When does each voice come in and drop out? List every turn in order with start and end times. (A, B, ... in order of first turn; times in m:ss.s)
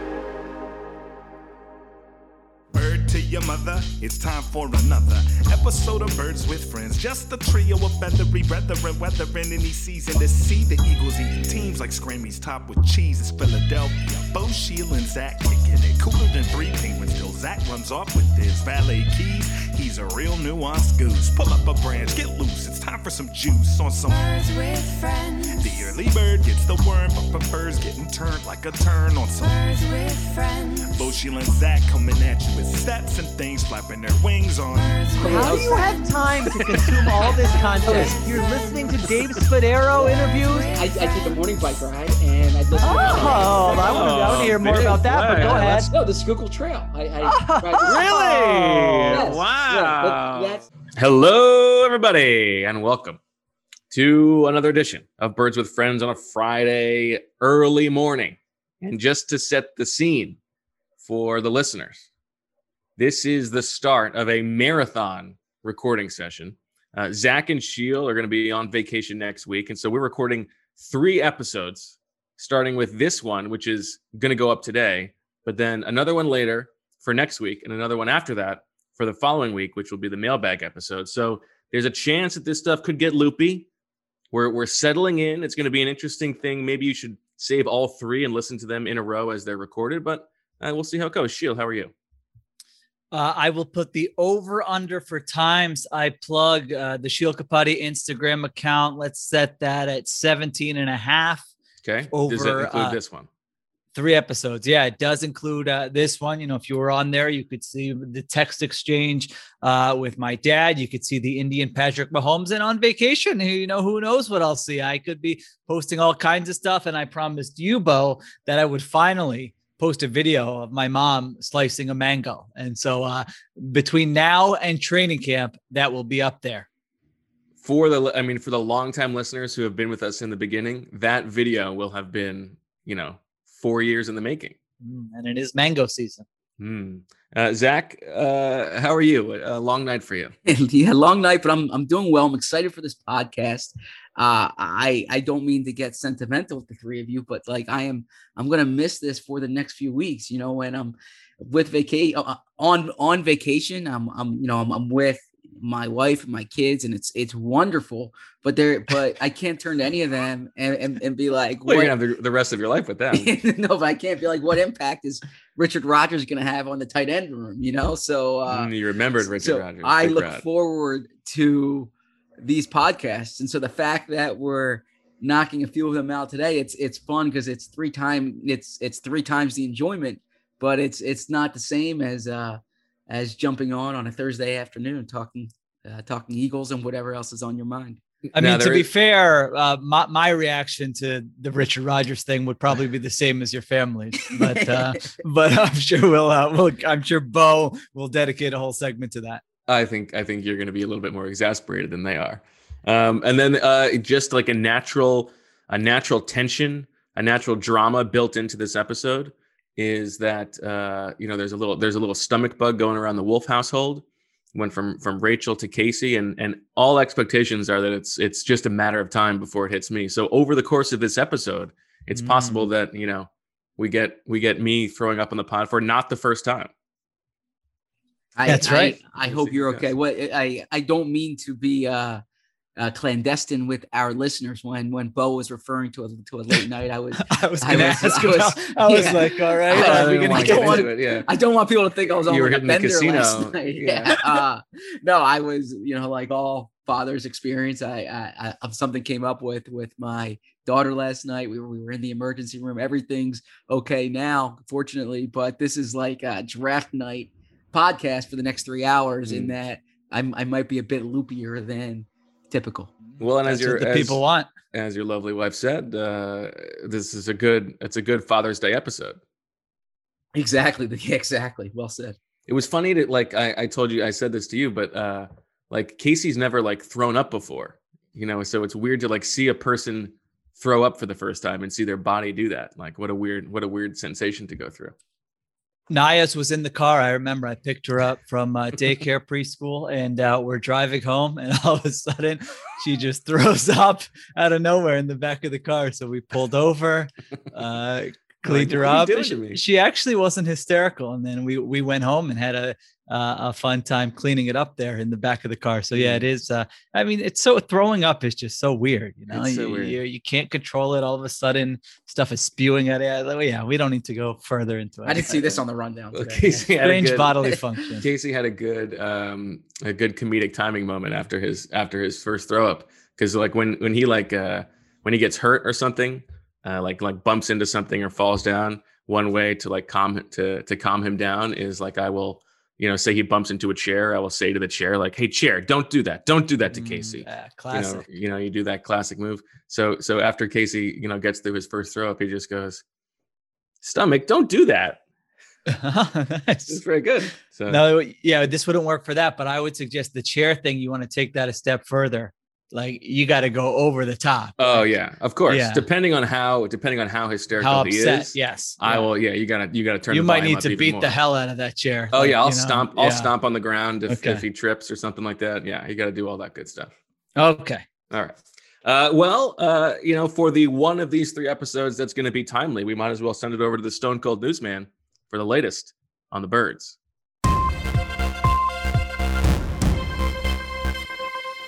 0:02.7-0:24.3 A
0:24.1-0:26.0 B
0:25.5-0:29.6 A
0:29.4-0:31.2 B
0:30.9-0:35.8 A
0:34.7-0:42.0 B
0:35.2-0:35.8 C
0:35.2-0:40.7 D
0:36.7-0:38.2 A
0:37.8-0:38.2 C
0:40.7-0:48.2 C
0:42.8-0:45.9 D
0:42.8-0:44.9 B
0:43.0-0:45.8 E
0:47.2-0:49.2 D
0:47.8-0:53.2 E
0:49.1-0:50.6 C
0:53.9-1:00.4 E
1:01.0-1:02.1 E
1:03.0-1:23.7 E
1:24.3-1:31.9 E
1:33.1-1:41.4 D
1:41.8-1:43.3 E
1:42.1-1:43.0 D
1:43.9-2:06.7 D
2:07.6-2:14.5 E
2:14.8-2:16.2 D
2:16.6-2:20.3 E
2:20.4-2:41.9 C
2:41.7-2:43.3 E
2:43.1-2:48.7 C
2:48.5-2:50.4 E
2:49.3-3:08.0 C
3:08.3-3:08.9 E
3:08.3-3:19.4 D
3:14.3-3:15.0 C
3:19.7-3:34.0 E
3:34.5-3:46.7 E
3:42.1-3:42.7 D
3:48.3-3:52.2 C
3:48.4-3:49.0 D
3:49.2-3:49.9 E
3:52.8-4:22.9 C
3:57.2-4:00.8 D
3:59.7-4:01.3 E
4:02.3-4:04.2 E
4:19.2-4:19.5 E
4:23.2-4:24.2 E
4:23.4-4:24.5 D
4:24.7-4:29.2 E
4:30.3-4:32.2 C
4:32.5-4:44.9 E
4:45.9-5:15.6 D
4:58.4-4:59.6 E
5:05.9-5:06.2 E
5:09.3-5:10.0 E
5:15.0-5:16.7 C
5:16.1-5:42.8 E
5:16.8-5:18.0 D
5:36.7-5:38.0 D
5:43.8-5:45.0 E
5:45.7-5:46.8 D
5:46.7-5:47.8 E
5:47.7-5:54.8 D
5:54.6-6:01.2 E
5:55.5-5:55.8 D
5:57.6-5:59.0 D
6:00.1-6:03.3 D
6:02.1-6:06.9 E
6:04.1-6:04.4 D
6:07.4-6:07.8 D
6:08.1-6:17.0 E